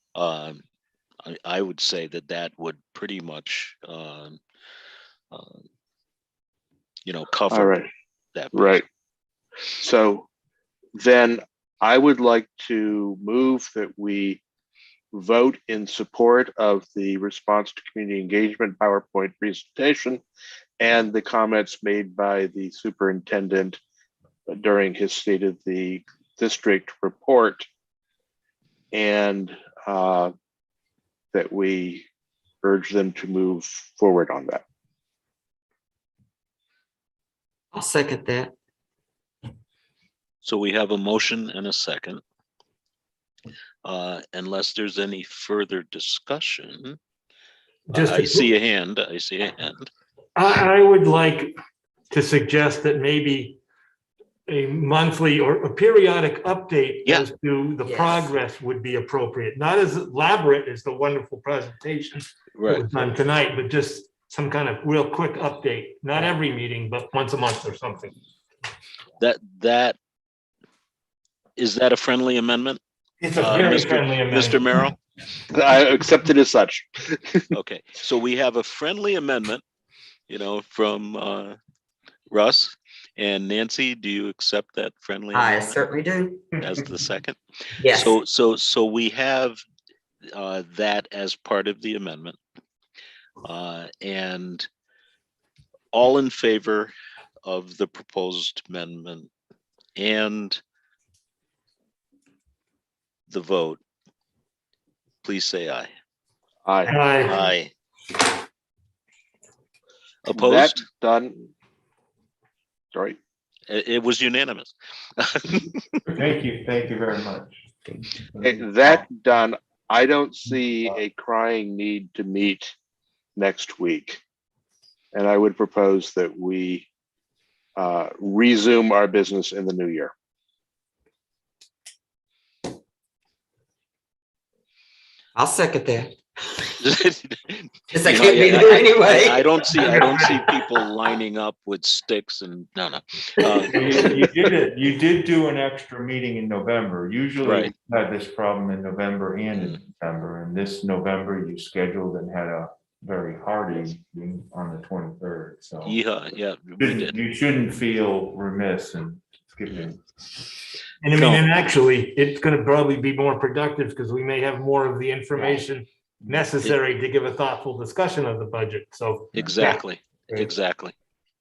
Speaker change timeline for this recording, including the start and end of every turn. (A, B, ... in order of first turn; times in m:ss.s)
0:00.1-0:00.6 A
0:01.2-0:04.4 A
0:05.3-0:05.6 A
0:07.0-0:07.8 A
0:07.5-0:07.9 B
0:08.3-0:08.8 A
0:08.5-0:08.8 B
0:09.8-0:10.3 B
0:10.9-0:14.4 B
0:15.1-0:20.2 B
0:20.8-0:23.8 B
0:24.5-0:27.6 B
0:28.9-0:30.3 B
0:31.3-0:32.0 B
0:32.6-0:34.6 B
0:37.7-0:38.5 C
0:40.4-0:42.2 A
0:43.8-0:47.0 A
0:47.9-0:48.5 D
0:47.9-0:49.9 A
0:50.4-0:51.5 D
0:52.1-0:53.6 D
0:54.5-1:08.1 D
0:57.8-0:58.3 C
1:02.6-1:02.9 A
1:09.2-1:10.0 A
1:11.6-1:12.8 A
1:13.2-1:14.8 D
1:13.4-1:15.0 A
1:15.5-1:17.5 B
1:17.5-1:19.6 A
1:20.3-1:21.6 A
1:22.3-1:25.8 A
1:25.3-1:26.5 C
1:26.6-1:27.4 A
1:27.8-1:28.1 C
1:27.9-1:29.6 A
1:30.3-1:32.4 A
1:33.4-1:34.7 A
1:35.9-1:36.9 A
1:37.4-1:39.3 A
1:39.9-1:40.6 A
1:43.3-1:43.8 A
1:45.2-1:45.9 A
1:46.6-1:47.0 B
1:46.8-1:47.4 D
1:47.2-1:47.7 A
1:50.2-1:50.8 A
1:50.3-1:51.5 B
1:52.9-1:53.2 B
1:53.7-1:56.0 A
1:56.1-1:57.6 E
1:58.3-1:59.0 E
1:58.4-2:02.7 B
2:00.7-2:01.0 E
2:03.4-2:04.2 B
2:05.1-2:06.9 B
2:07.8-2:10.1 B
2:15.4-2:16.7 C
2:16.8-2:24.1 A
2:17.9-2:20.8 C
2:23.4-2:23.7 C
2:23.7-2:36.0 E
2:27.4-2:27.7 A
2:35.8-2:37.2 A
2:36.8-2:40.0 E
2:41.0-2:49.3 D
2:41.1-2:41.5 A
2:46.2-2:46.5 E
2:49.3-2:50.5 E
2:49.3-2:50.9 A